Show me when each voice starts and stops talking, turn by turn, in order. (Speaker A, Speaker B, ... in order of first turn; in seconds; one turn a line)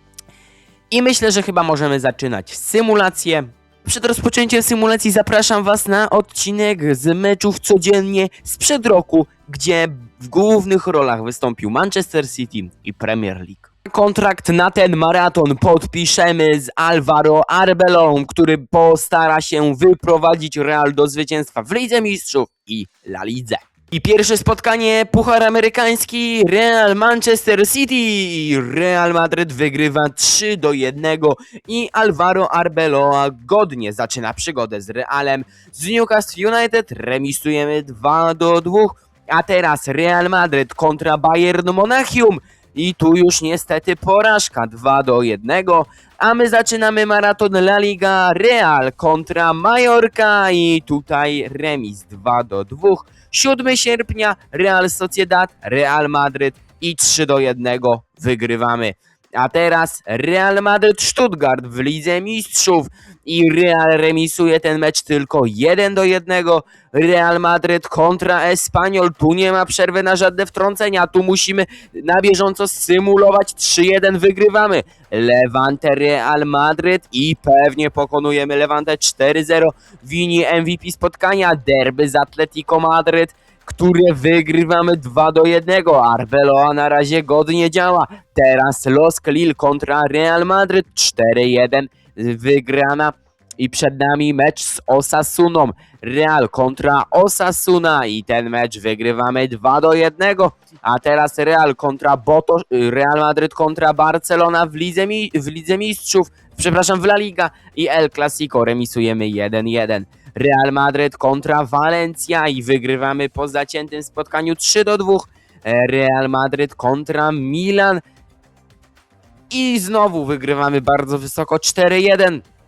Speaker A: 0.9-118.0
Speaker A: 119.5-122.4